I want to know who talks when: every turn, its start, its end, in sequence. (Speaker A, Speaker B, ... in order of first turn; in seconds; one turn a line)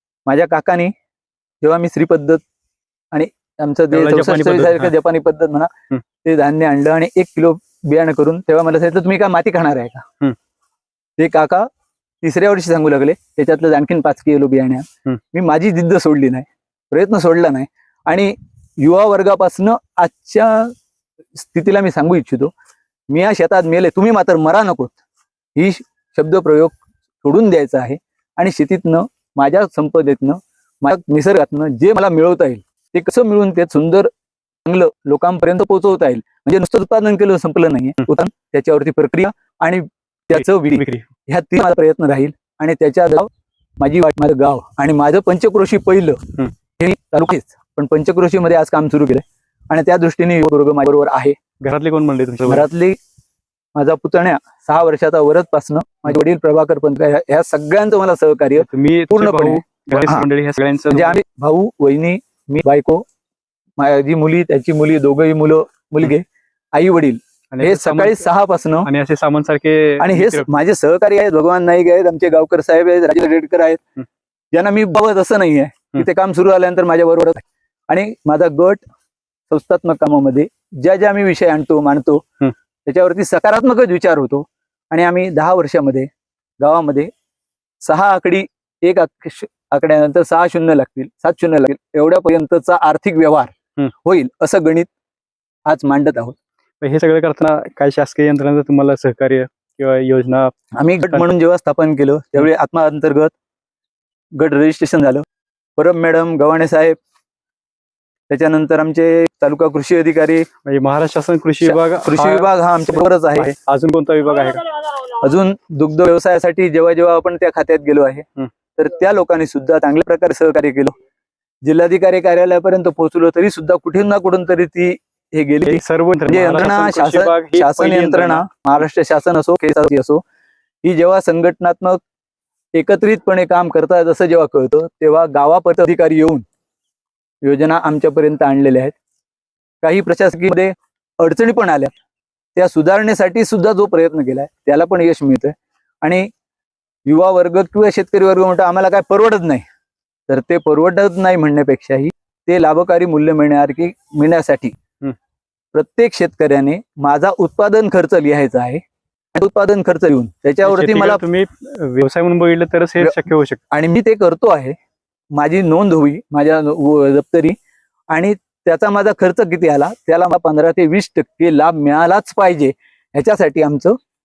Speaker A: 0.2-0.9
Speaker A: 1.6-2.4
Speaker A: 3.1-5.7
Speaker B: 3.9-4.9
Speaker A: 6.2-10.0
Speaker A: 11.2-11.7
Speaker A: 12.2-20.7
Speaker A: 21.3-22.5
Speaker A: 23.1-25.0
Speaker A: 25.5-34.1
Speaker A: 34.6-46.2
Speaker B: 40.8-41.1
Speaker A: 46.8-51.4
Speaker B: 51.6-52.7
Speaker A: 52.5-53.0
Speaker A: 53.8-60.2
Speaker B: 58.6-61.2
Speaker A: 60.9-63.0
Speaker A: 63.8-68.9
Speaker B: 67.5-68.2
Speaker B: 68.8-70.5
Speaker A: 70.0-73.8
Speaker A: 74.5-78.8
Speaker A: 79.5-82.2
Speaker A: 82.8-86.1
Speaker A: 86.6-87.1
Speaker A: 87.8-93.5
Speaker A: 94.0-94.9
Speaker A: 95.7-96.3
Speaker B: 96.8-100.5
Speaker A: 100.7-103.3
Speaker A: 104.4-105.2
Speaker A: 105.8-107.0
Speaker A: 108.3-110.5
Speaker B: 110.7-114.7
Speaker A: 111.6-113.5
Speaker A: 115.0-118.2
Speaker A: 118.8-121.0
Speaker A: 121.6-130.2
Speaker B: 125.7-128.4
Speaker A: 130.8-132.0
Speaker A: 132.7-136.4
Speaker A: 137.4-138.9
Speaker A: 139.8-141.9
Speaker A: 142.5-146.3
Speaker A: 147.1-149.6
Speaker A: 150.3-154.8
Speaker A: 155.7-158.8
Speaker A: 159.3-161.2
Speaker B: 160.6-163.6
Speaker A: 163.7-164.8
Speaker A: 165.3-167.6
Speaker A: 168.1-173.9